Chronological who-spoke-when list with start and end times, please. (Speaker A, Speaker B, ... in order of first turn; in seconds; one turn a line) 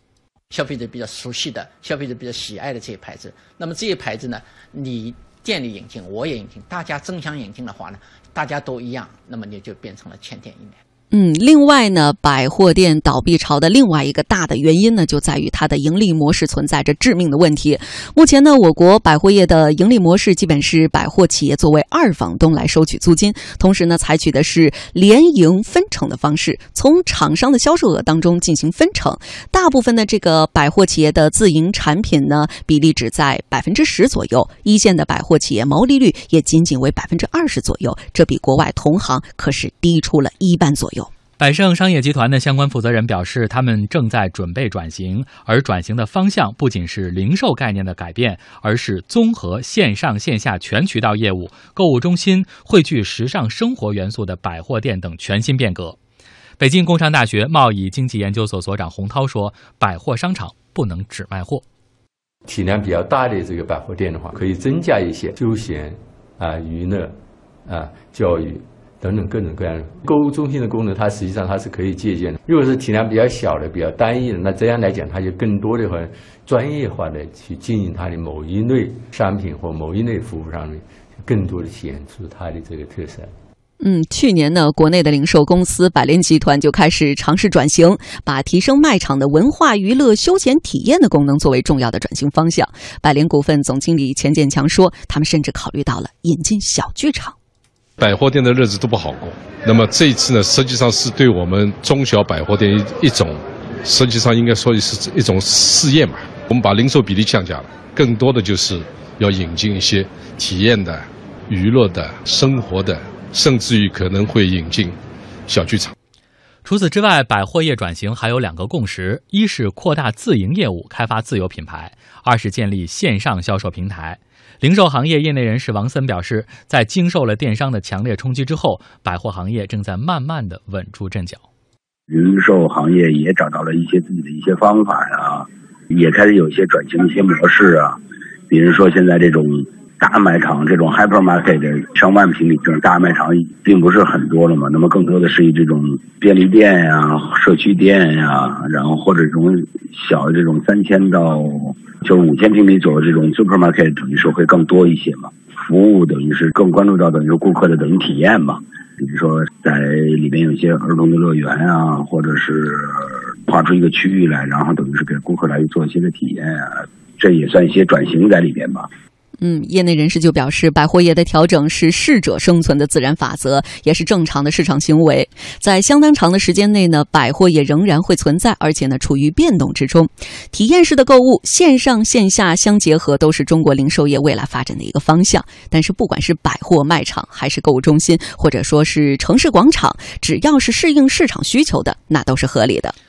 Speaker A: 0.5-10.8
Speaker B: 11.1-41.1
Speaker C: 41.4-56.0
Speaker C: 56.6-61.6
Speaker D: 62.5-83.3
Speaker B: 83.8-97.3
Speaker E: 98.0-114.9
Speaker E: 115.5-115.9
Speaker C: 116.6-131.4
Speaker F: 132.1-138.0
Speaker F: 138.5-168.9
Speaker B: 169.4-192.9